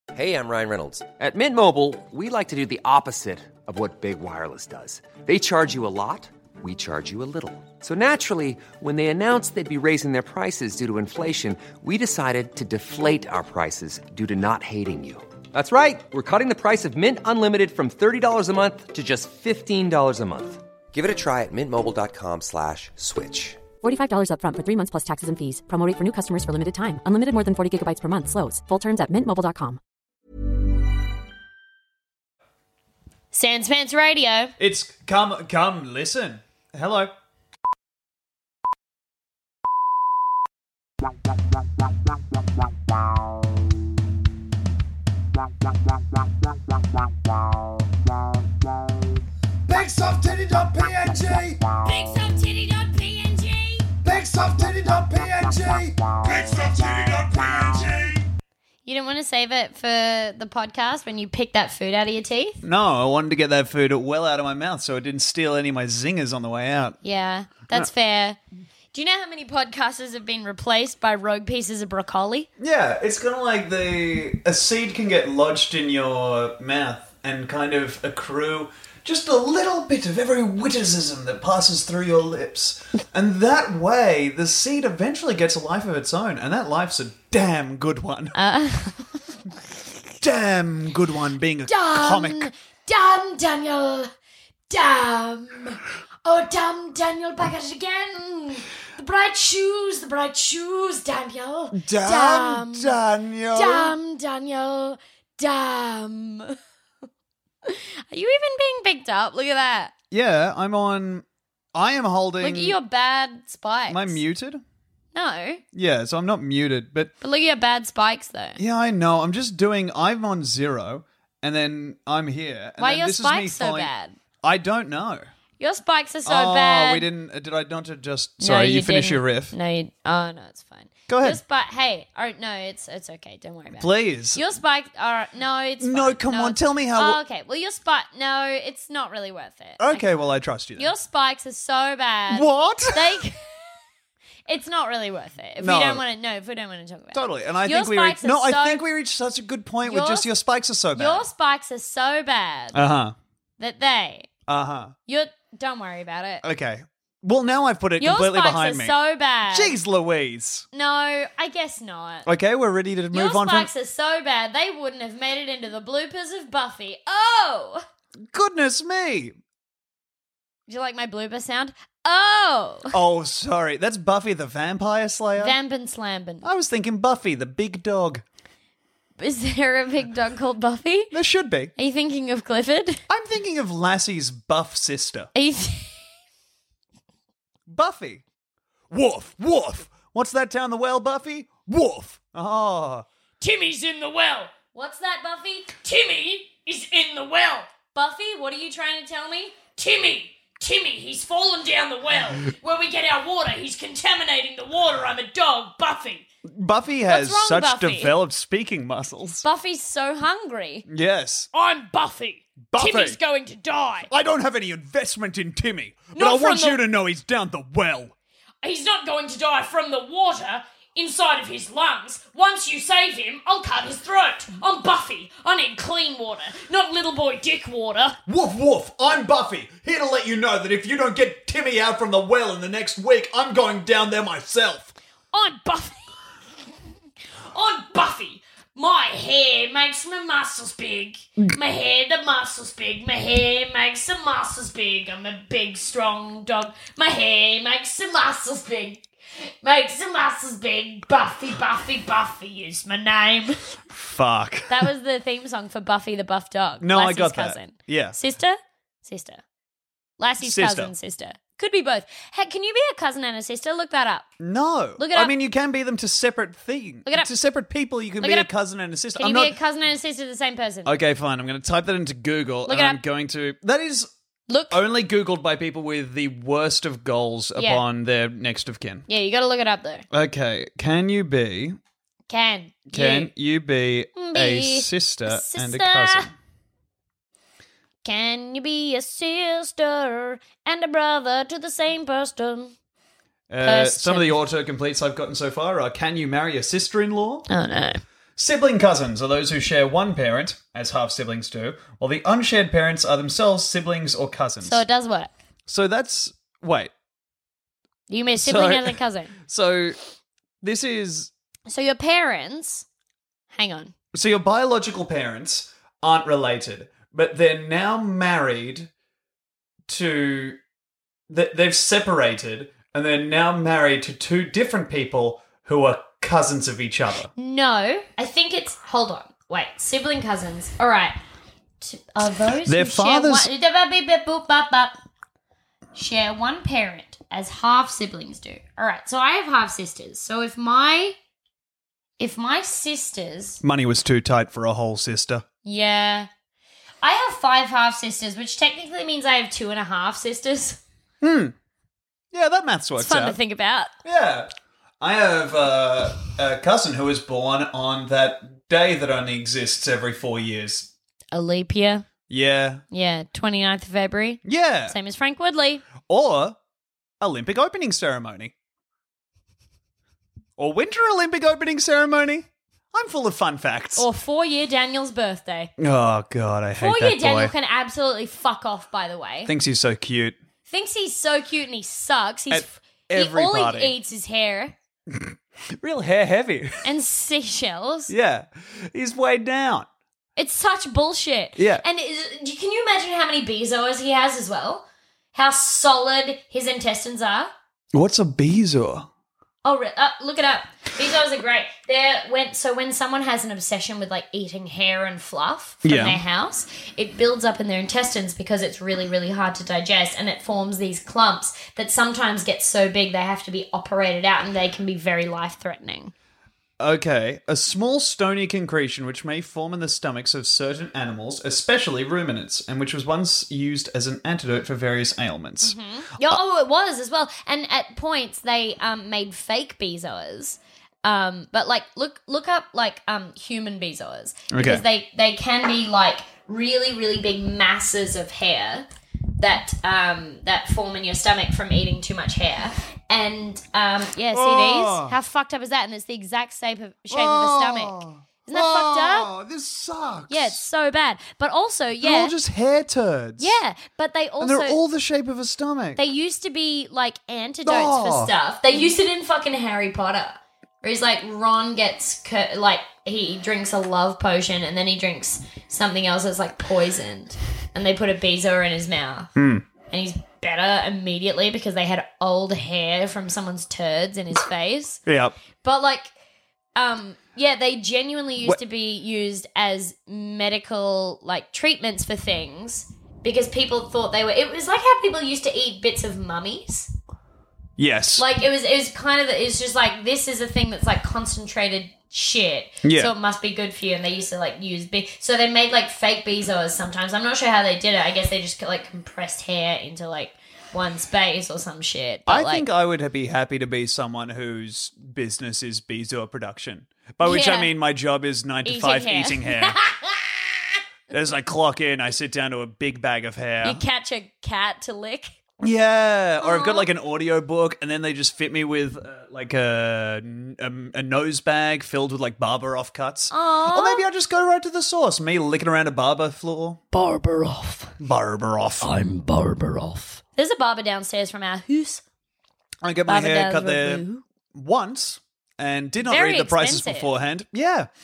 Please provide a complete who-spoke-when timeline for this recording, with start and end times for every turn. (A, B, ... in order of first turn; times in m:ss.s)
0:00.1-0:23.6 A
0:23.8-0:29.8 B
0:33.3-0:34.5 C
0:34.6-0:37.1 D
0:49.8-0:51.1 E
0:51.8-0:53.9 C
0:54.1-0:54.9 D
0:54.1-0:57.9 E
0:56.3-0:58.1 D
0:58.9-1:02.6 C
1:02.6-1:07.0 D
1:07.0-1:08.4 C
1:08.9-1:12.5 C
1:12.6-1:28.4 D
1:28.4-1:29.1 C
1:30.2-1:32.5 D
1:31.7-1:34.1 C
1:34.7-1:43.0 C
1:41.7-1:44.0 D
1:43.5-1:46.6 C
1:47.6-1:49.9 C
1:50.1-1:52.8 D
1:52.4-1:54.2 C
1:53.9-1:54.6 D
1:55.1-1:55.6 C
1:55.7-1:57.1 D
1:57.2-1:58.6 C
1:58.6-2:03.9 D
2:02.8-2:04.2 C
2:04.4-2:05.3 D
2:05.6-2:07.1 C
2:06.3-2:09.5 D
2:08.4-2:20.0 C
2:11.1-2:11.4 D
2:13.8-2:14.4 D
2:15.8-2:17.2 D
2:19.8-2:20.9 D
2:20.8-2:23.4 C
2:22.3-2:23.2 D
2:24.5-2:28.8 C
2:25.6-2:26.0 D
2:27.1-2:31.3 D
2:29.8-2:30.3 C
2:30.9-2:32.8 C
2:32.7-2:33.2 D
2:33.6-2:34.3 C
2:34.5-2:35.0 D
2:35.1-2:36.4 C
2:36.4-2:39.0 D
2:38.0-2:39.8 C
2:39.5-2:40.7 D
2:40.7-2:42.3 C
2:42.3-2:43.7 D
2:43.1-2:47.8 C
2:48.3-2:49.4 D
2:50.7-2:53.0 C
2:52.9-2:55.6 D
2:55.4-2:56.5 C
2:56.4-2:58.2 D
2:59.2-3:01.1 C
3:01.1-3:01.7 D
3:01.8-3:03.0 C
3:03.1-3:05.3 D
3:05.4-3:06.0 C
3:07.7-3:08.2 D
3:08.9-3:13.1 D
3:13.4-3:26.2 C
3:26.4-3:29.4 D
3:27.1-3:28.1 C
3:29.4-3:30.9 C
3:30.9-3:31.5 D
3:31.5-3:34.1 C
3:32.7-3:33.2 D
3:34.1-3:38.1 D
3:36.2-3:36.8 C
3:38.6-3:48.2 C
3:48.3-3:55.0 D
3:55.3-3:56.1 C
3:57.5-4:09.0 C
4:09.6-4:13.8 C
4:13.9-4:14.9 D
4:14.7-4:19.4 C
4:16.8-4:18.2 D
4:20.2-4:24.3 C
4:20.4-4:20.9 D
4:24.4-4:29.6 D
4:25.0-4:25.3 C
4:28.2-4:28.5 C
4:29.2-4:30.9 C
4:30.8-4:34.1 D
4:32.7-4:33.0 C
4:34.5-4:34.8 C
4:34.7-4:39.1 D
4:37.6-4:37.8 C
4:39.1-4:40.0 C
4:40.1-4:41.8 D
4:42.3-4:43.3 C
4:42.9-4:46.3 D
4:44.2-4:46.3 C
4:48.0-4:52.7 C
4:53.5-4:57.5 D
4:53.6-4:54.4 C
4:57.5-4:58.0 C
4:58.4-5:04.8 D
5:04.6-5:05.3 C
5:05.7-5:06.9 D
5:08.1-5:09.4 C
5:08.4-5:10.0 D
5:10.6-5:11.3 D
5:11.7-5:12.9 C
5:13.5-5:13.9 C
5:14.1-5:18.9 D
5:19.9-5:20.6 D
5:21.3-5:27.3 D
5:27.4-5:31.2 C
5:31.8-5:34.9 C
5:32.6-5:33.5 D
5:36.0-5:41.2 C
5:42.2-5:43.6 C
5:43.6-5:45.4 D
5:45.6-5:46.3 C
5:47.0-5:50.8 C
5:51.2-5:51.6 D
5:52.3-5:53.4 D
5:53.0-5:53.9 C
5:54.0-6:00.9 D
6:01.3-6:02.1 C
6:02.3-6:02.8 D
6:02.9-6:05.9 C
6:04.4-6:05.0 D
6:06.0-6:06.6 D
6:07.2-6:08.5 D
6:10.6-6:14.1 D
6:14.0-6:15.7 C
6:15.8-6:17.5 D
6:16.8-6:19.5 C
6:19.4-6:20.4 D
6:20.7-6:24.7 C
6:22.5-6:23.9 D
6:25.1-6:26.9 D
6:26.8-6:28.1 C
6:28.1-6:29.9 D
6:30.4-6:37.5 C
6:31.6-6:31.8 D
6:37.9-6:39.1 D
6:39.6-6:56.1 C
6:45.8-6:46.2 D
6:56.8-7:05.8 D
7:05.6-7:18.9 C
7:14.5-7:14.8 D
7:19.4-7:29.3 C
7:24.3-7:25.2 D
7:27.1-7:30.6 D
7:30.3-7:32.4 C
7:32.0-7:33.6 D
7:33.4-7:34.8 C
7:34.4-7:36.0 D
7:36.0-7:49.3 C
7:37.6-7:38.3 D
7:49.4-7:49.7 D
7:49.9-7:55.0 C
7:55.1-7:55.4 D
7:55.6-7:56.1 C
7:56.8-8:06.9 C
8:07.8-8:08.3 D
8:08.2-8:22.6 C
8:12.8-8:13.1 D
8:22.3-8:29.8 D
8:27.2-8:27.7 C
8:28.6-8:30.3 C
8:31.1-8:33.8 D
8:33.6-8:35.3 C
8:35.6-8:46.8 D
8:36.4-8:36.9 C
8:43.3-8:44.1 C
8:46.9-8:48.0 C
8:48.0-8:48.9 D
8:48.8-8:52.0 C
8:52.8-8:57.9 D
8:53.1-8:54.2 C
8:56.0-8:57.1 C